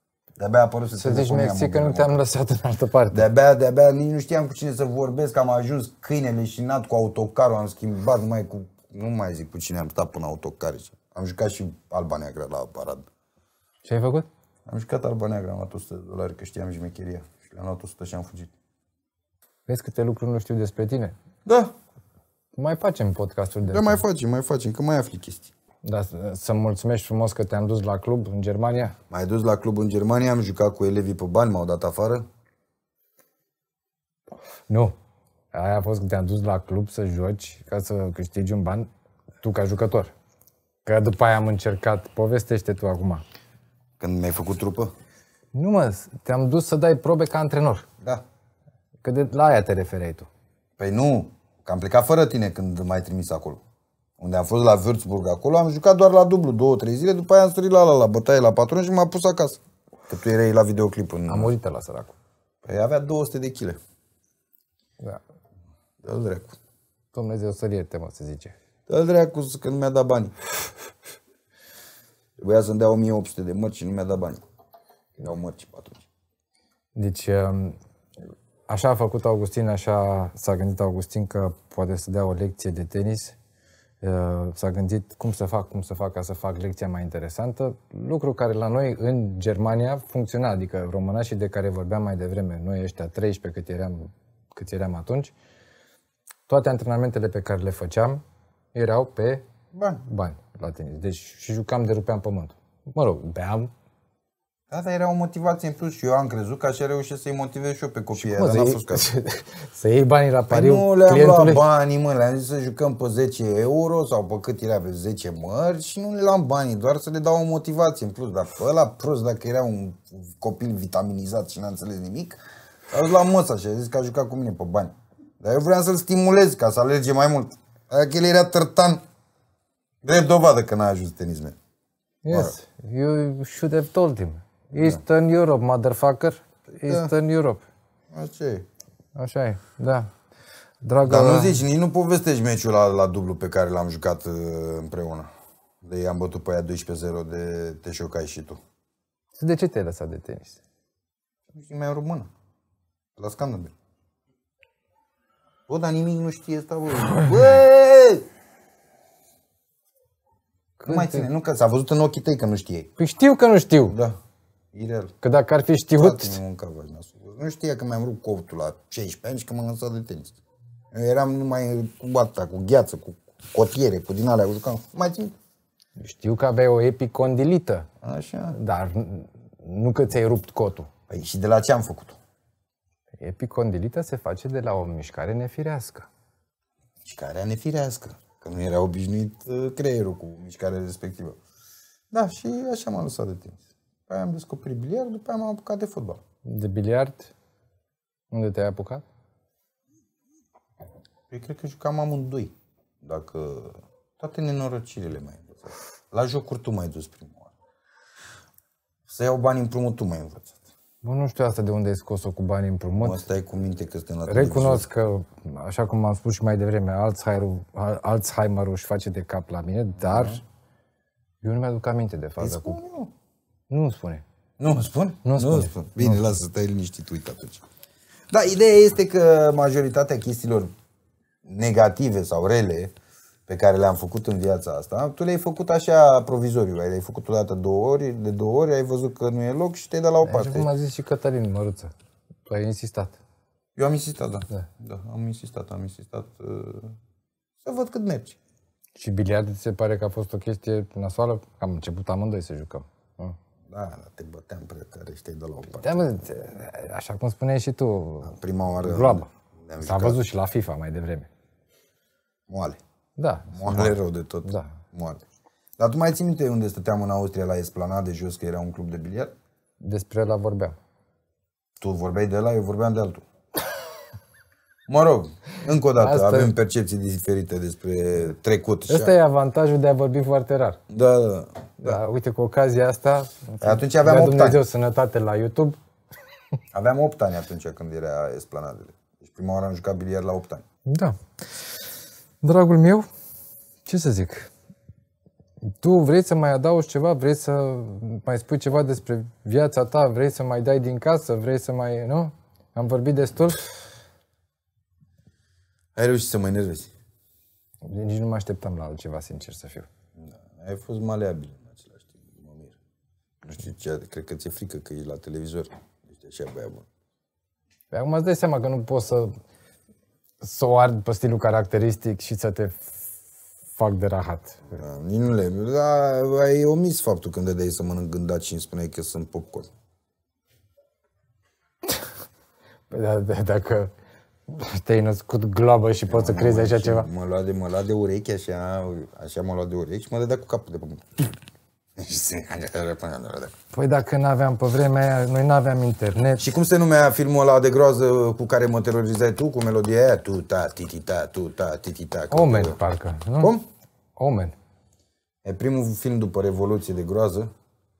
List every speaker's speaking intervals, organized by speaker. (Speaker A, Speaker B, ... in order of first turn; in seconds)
Speaker A: 0.4-2.2, 3.1-13.1, 14.7-18.5, 21.5-21.7, 23.7-25.5, 29.1-32.3, 44.0-44.9, 50.8-53.6, 54.2-61.5, 62.6-63.8, 66.0-66.6, 68.9-70.3, 72.4-74.4, 75.2-76.1, 99.7-100.0, 104.7-109.1, 110.5-129.0, 130.0-131.6, 134.7-135.0, 136.9-137.1, 138.1-138.7, 141.1-145.3, 145.8-148.6, 151.5-152.3, 153.2-153.7, 155.7-158.3, 160.9-162.9, 163.8-164.2, 164.7-165.1, 166.0-170.4, 170.9-175.4, 178.0-178.6, 181.1-182.2, 187.0-191.4, 192.1-196.2, 201.3-207.5, 209.1-210.6, 213.0-214.9, 220.0-220.4, 222.4-223.1, 224.6-227.7, 228.3-230.7, 231.4-232.9, 233.5-240.7, 243.8-247.0, 247.6-248.4, 253.7-256.1, 258.2-260.2, 262.5-262.8, 263.5-265.2, 265.8-269.3, 271.8-273.2, 274.9-279.1, 280.9-282.0, 283.6-284.6, 286.7-290.6, 305.9-306.9, 310.2-312.8, 313.4-316.9, 324.7-329.7, 336.1-341.4, 342.0-343.6, 346.4-352.8, 353.4-353.6, 355.4-357.5
Speaker B: 1.0-3.3, 13.8-14.3, 19.7-21.1, 22.6-24.0, 25.8-29.0, 34.7-35.0, 35.5-38.9, 39.4-40.1, 40.9-43.2, 45.5-47.9, 49.0-50.3, 61.3-62.1, 67.1-68.5, 77.0-77.8, 78.7-83.4, 84.0-95.3, 96.5-99.5, 100.0-103.7, 108.2-111.6, 132.2-137.6, 139.2-140.1, 140.8-141.6, 149.3-150.6, 160.8-161.3, 163.0-163.9, 165.2-166.4, 176.0-177.9, 178.5-180.9, 183.2-186.1, 196.4-197.3, 198.3-199.0, 211.0-213.2, 214.3-220.4, 221.4-222.8, 223.7-224.2, 225.2-226.4, 240.2-241.9, 242.5-243.2, 249.0-253.4, 255.7-259.3, 259.8-261.3, 263.2-264.8, 269.8-270.8, 276.0-276.5, 278.9-280.8, 281.8-285.8, 290.9-291.6, 292.4-293.1, 293.9-294.5, 295.6-303.9, 307.8-309.9, 317.9-319.4, 320.4-323.2, 323.7-324.8, 332.9-333.9, 334.5-337.1, 343.7-346.4, 352.3-353.6, 354.2-354.6